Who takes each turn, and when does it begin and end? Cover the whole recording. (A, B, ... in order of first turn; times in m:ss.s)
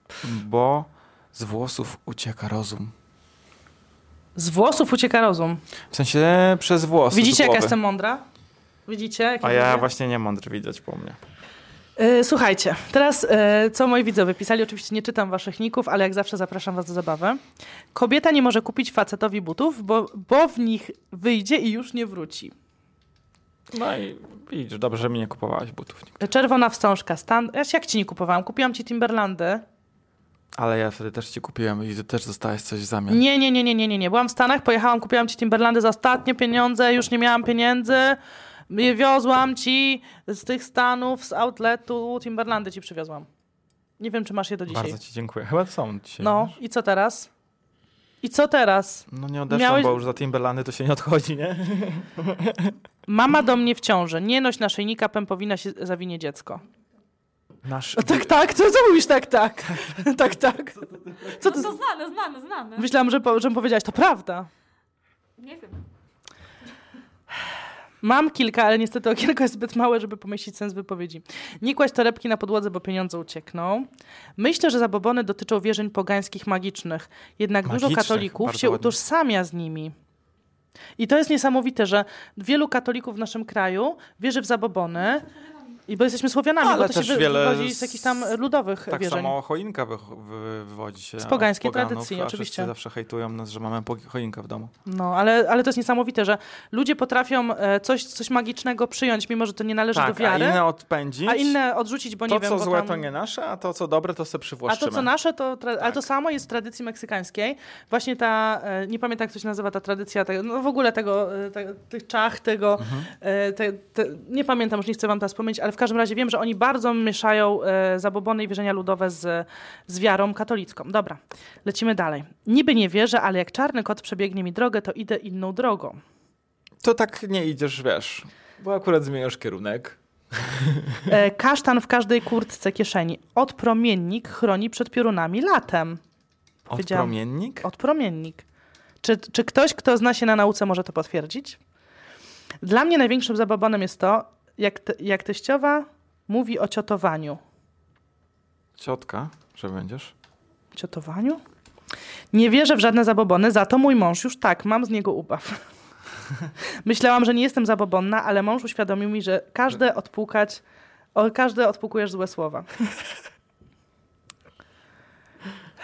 0:00.2-0:02.9 A
0:04.4-0:05.6 B
0:05.9-0:07.8 A
0:07.1-0:08.2 B
0:08.9-0:09.9 B
0:09.4-0:11.2 A
0:12.0-0:17.4 B
0:17.9-0:22.5 B
0:23.7-0:26.2 A
0:26.2-0:29.6 B
0:30.5-0:33.2 A
0:33.1-0:38.2 B
0:38.7-0:43.3 B
0:44.0-0:45.0 B
0:44.7-0:46.5 A
0:46.2-0:47.3 B
0:48.2-0:50.0 B
0:49.1-0:52.8 A
0:53.1-0:56.6 B
0:57.6-0:58.4 A
0:58.0-1:01.7 B
1:01.3-1:02.9 C
1:02.8-1:04.5 B
1:05.4-1:05.8 C
1:08.0-1:19.9 B
1:17.6-1:19.0 A
1:21.0-1:25.2 B
1:25.0-1:25.8 C
1:25.9-1:29.3 B
1:26.6-1:28.3 A
1:28.9-1:34.7 A
1:31.2-1:32.7 B
1:34.8-1:40.6 B
1:39.9-1:41.6 A
1:41.2-1:43.0 B
1:42.3-1:45.1 A
1:44.7-2:06.0 B
1:52.8-1:53.1 A
2:06.8-2:11.1 A
2:11.1-2:16.0 B
2:16.6-2:18.4 B
2:16.7-2:17.7 A
2:19.0-2:21.6 B
2:22.6-2:27.4 B
2:28.8-2:30.1 A
2:30.7-2:31.4 B
2:32.3-2:35.6 B
2:36.8-2:40.6 B
2:41.1-2:42.7 B